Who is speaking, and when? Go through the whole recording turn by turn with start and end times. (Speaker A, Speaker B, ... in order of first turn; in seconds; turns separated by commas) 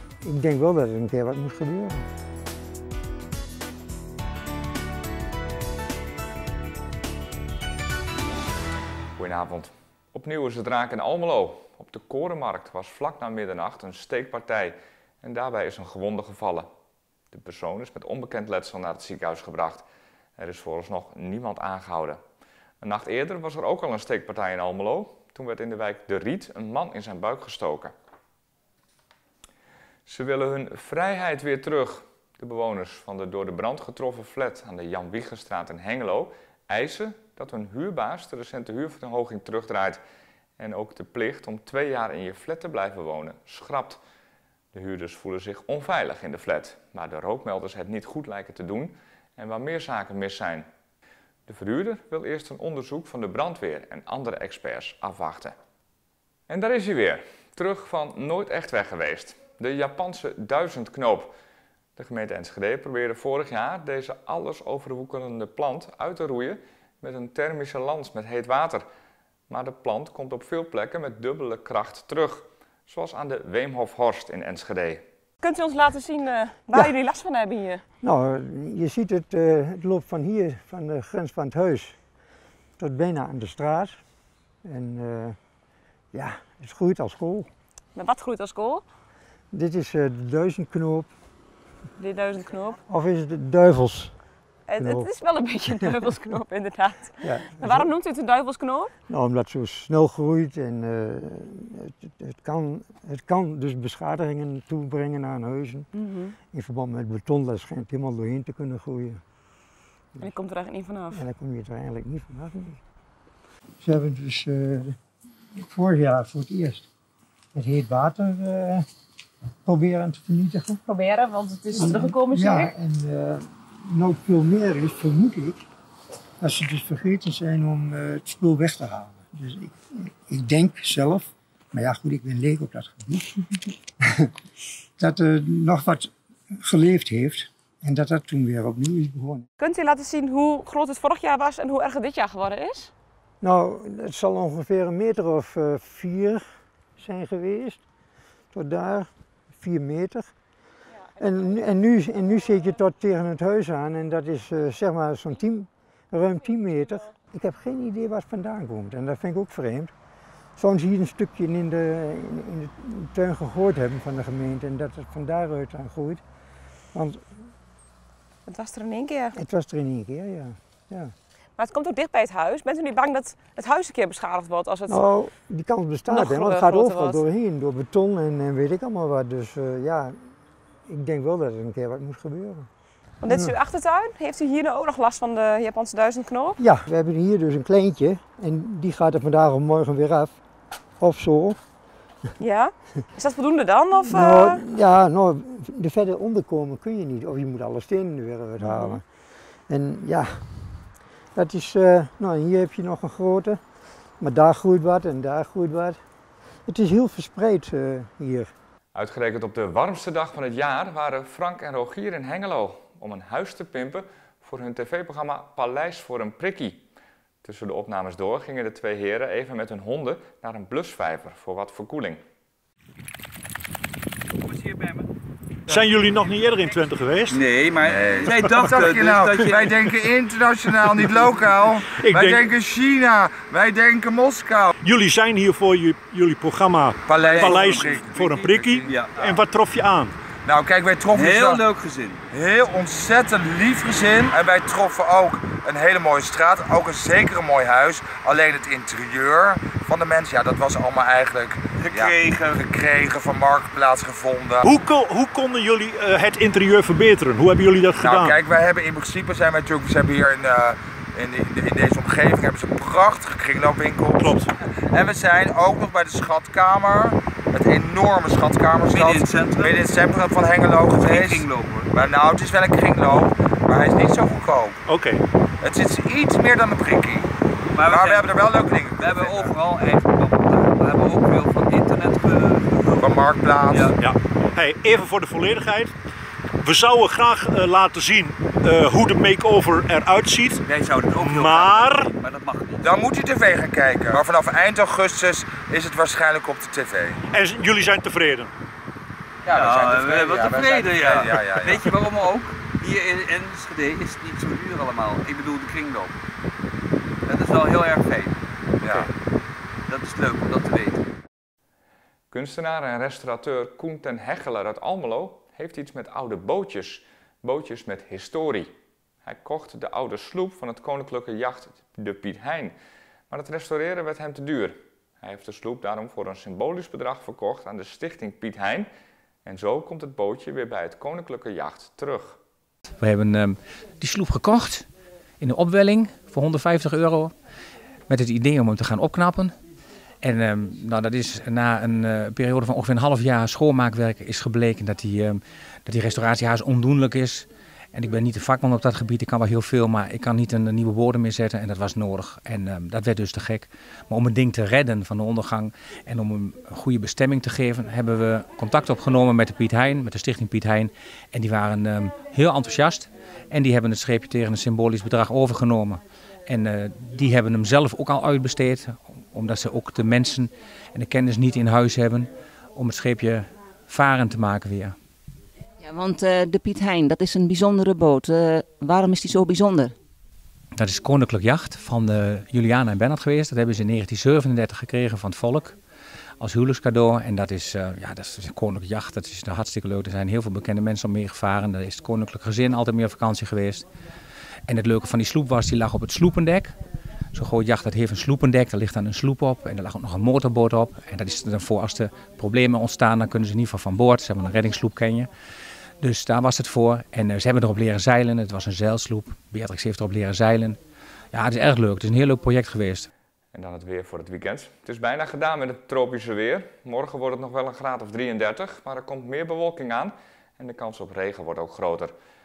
Speaker A: 0.2-2.0, Speaker B: 9.2-16.7, Speaker B: 17.3-19.9, Speaker B: 20.4-22.2, Speaker B: 22.8-27.9, Speaker B: 30.1-40.0, Speaker B: 40.6-44.0, Speaker B: 44.7-50.7, Speaker B: 51.5-55.5, Speaker B: 56.5-61.3, Speaker B: 62.0-68.9, Speaker B: 69.5-75.0, Speaker C: 75.4-77.8, Speaker A: 78.0-82.0, Speaker A: 82.8-84.0, Speaker A: 84.6-85.4, Speaker A: 86.1-87.5, Speaker C: 88.0-88.8, Speaker A: 89.5-91.1, Speaker C: 92.0-92.8, Speaker A: 92.9-94.1, Speaker C: 94.7-98.9, Speaker A: 94.8-95.1, Speaker A: 97.2-97.9, Speaker A: 99.1-105.9, Speaker C: 106.0-106.3, Speaker A: 106.4-109.2, Speaker C: 110.2-111.2, Speaker A: 111.1-112.8, Speaker A: 113.8-115.0, Speaker A: 115.6-116.9, Speaker A: 117.5-118.8, Speaker A: 119.7-120.8, Speaker C: 120.9-122.7, Speaker A: 121.7-125.6, Speaker A: 126.4-134.3, Speaker A: 135.0-139.4, Speaker C: 139.6-142.9, Speaker A: 143.4-146.4, Speaker A: 147.0-147.8, Speaker A: 148.5-150.3, Speaker A: 151.2-159.9, Speaker A: 160.6-166.2, Speaker A: 166.9-167.2, Speaker C: 168.5-169.3, Speaker A: 169.3-171.1, Speaker C: 171.6-175.0, Speaker A: 174.9-180.2, Speaker C: 176.1-177.2, Speaker A: 180.9-182.7, Speaker C: 183.2-186.6, Speaker A: 183.3-183.5, Speaker A: 186.6-190.4, Speaker A: 191.0-191.6, Speaker C: 192.4-194.6, Speaker A: 194.0-199.1, Speaker C: 198.7-199.0, Speaker A: 199.7-200.7, Speaker A: 201.3-203.6, Speaker A: 204.2-206.0, Speaker A: 206.7-208.5, Speaker B: 208.9-216.8, Speaker B: 217.4-222.2, Speaker D: 224.5-225.1, Speaker E: 225.7-227.4, Speaker D: 227.3-229.8, Speaker F: 227.8-234.7, Speaker E: 228.2-228.8, Speaker E: 231.9-232.5, Speaker E: 234.8-240.2, Speaker F: 237.1-238.9, Speaker D: 237.2-239.4, Speaker F: 240.4-241.6, Speaker D: 241.1-242.2, Speaker F: 242.3-254.7, Speaker D: 251.8-252.6, Speaker E: 254.6-258.4, Speaker F: 258.0-274.8, Speaker E: 264.2-264.5, Speaker D: 268.8-269.8, Speaker D: 270.9-272.1, Speaker E: 274.9-275.2, Speaker F: 275.6-277.3, Speaker D: 277.7-283.1, Speaker F: 277.9-279.6, Speaker F: 282.9-283.9, Speaker D: 283.7-284.0, Speaker E: 284.0-285.9, Speaker E: 286.6-290.6, Speaker D: 290.7-292.9, Speaker E: 291.1-292.1, Speaker F: 292.8-297.2, Speaker E: 297.3-298.5, Speaker D: 299.5-306.2, Speaker F: 299.5-301.9, Speaker D: 307.3-308.4, Speaker F: 308.8-309.1, Speaker D: 309.9-311.0, Speaker B: 312.3-318.7, Speaker B: 319.2-322.8, Speaker B: 323.3-328.9, Speaker B: 329.4-332.4, Speaker G: 333.0-334.9, Speaker G: 335.4-337.3, Speaker G: 338.1-339.5, Speaker G: 340.2-374.9, Speaker H: 375.8-379.9, Speaker G: 380.8-385.8, Speaker G: 386.4-393.9, Speaker G: 394.7-396.7, Speaker G: 397.3-405.3, Speaker G: 406.0-410.8, Speaker G: 411.3-413.1, Speaker B: 413.5-422.1